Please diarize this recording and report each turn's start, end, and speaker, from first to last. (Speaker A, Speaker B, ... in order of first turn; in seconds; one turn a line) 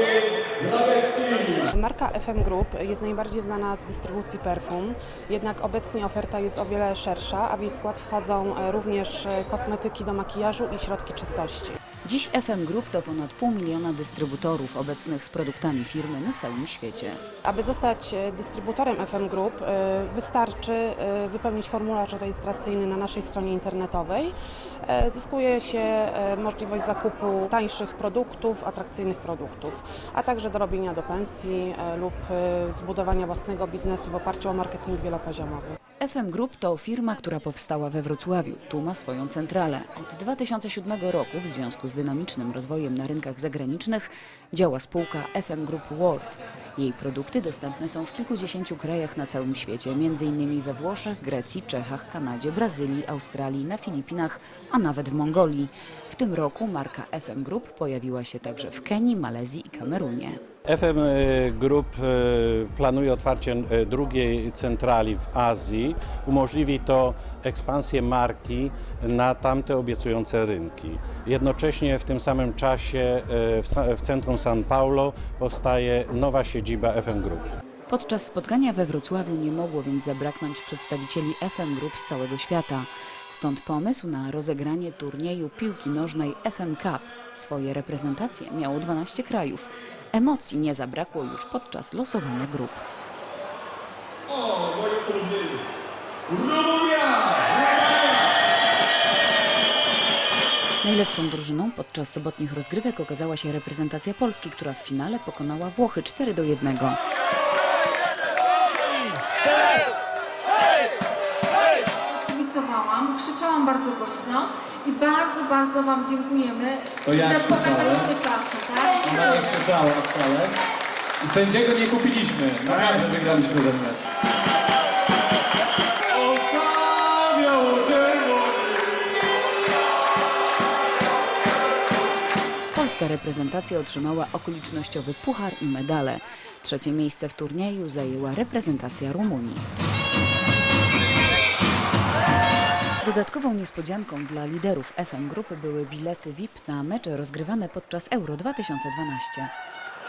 Speaker A: 0.6-11.8
Speaker B: 12.0-17.2
Speaker A: 17.4-35.8
Speaker B: 36.0-60.4
Speaker C: 60.6-77.5
Speaker B: 77.9-92.8
Speaker B: 100.8-107.0
Speaker D: 112.1-119.4
Speaker E: 117.0-118.1
Speaker E: 119.0-120.5
Speaker E: 121.2-124.0
Speaker E: 126.1-128.9
Speaker B: 132.7-139.7
Speaker B: 143.0-149.5